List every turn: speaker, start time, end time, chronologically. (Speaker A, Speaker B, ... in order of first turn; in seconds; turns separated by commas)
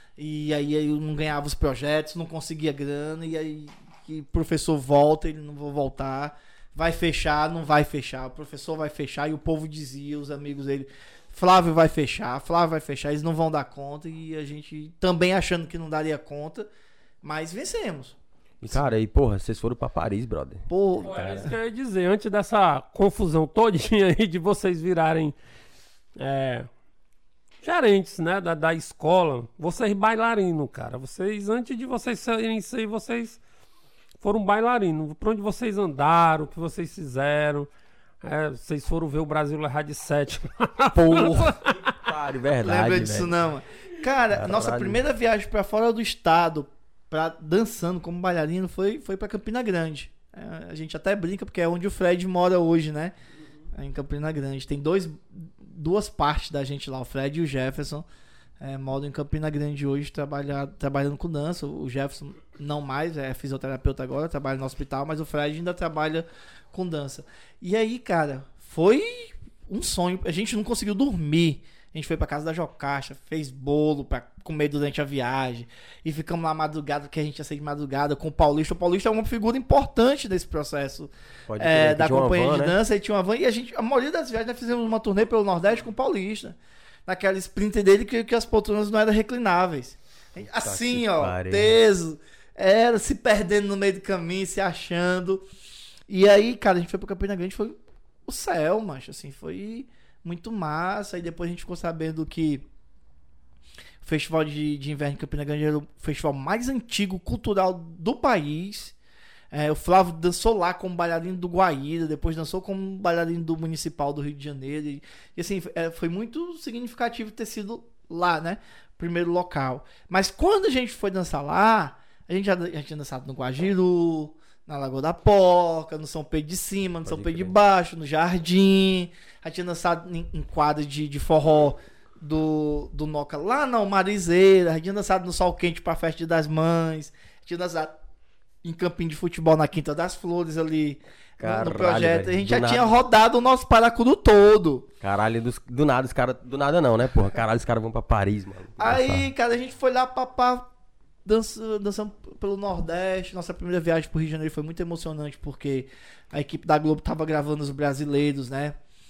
Speaker A: 0.2-16.7, Speaker A: 17.2-18.2, Speaker B: 18.6-21.2, Speaker A: 20.7-21.6, Speaker C: 21.0-25.4, Speaker C: 26.2-26.7, Speaker C: 27.6-33.4, Speaker C: 34.2-37.7, Speaker C: 38.2-41.9, Speaker B: 40.9-43.4, Speaker A: 41.1-41.5, Speaker A: 42.6-53.1, Speaker B: 44.3-45.0, Speaker A: 53.7-58.0, Speaker A: 58.6-95.5, Speaker B: 81.5-82.8, Speaker B: 90.5-91.8, Speaker A: 96.1-102.7, Speaker A: 104.0-109.0, Speaker A: 109.5-138.0, Speaker B: 127.1-127.5, Speaker A: 138.6-144.9, Speaker B: 141.4-142.9, Speaker B: 145.0-149.3, Speaker A: 148.8-150.7, Speaker A: 151.2-158.7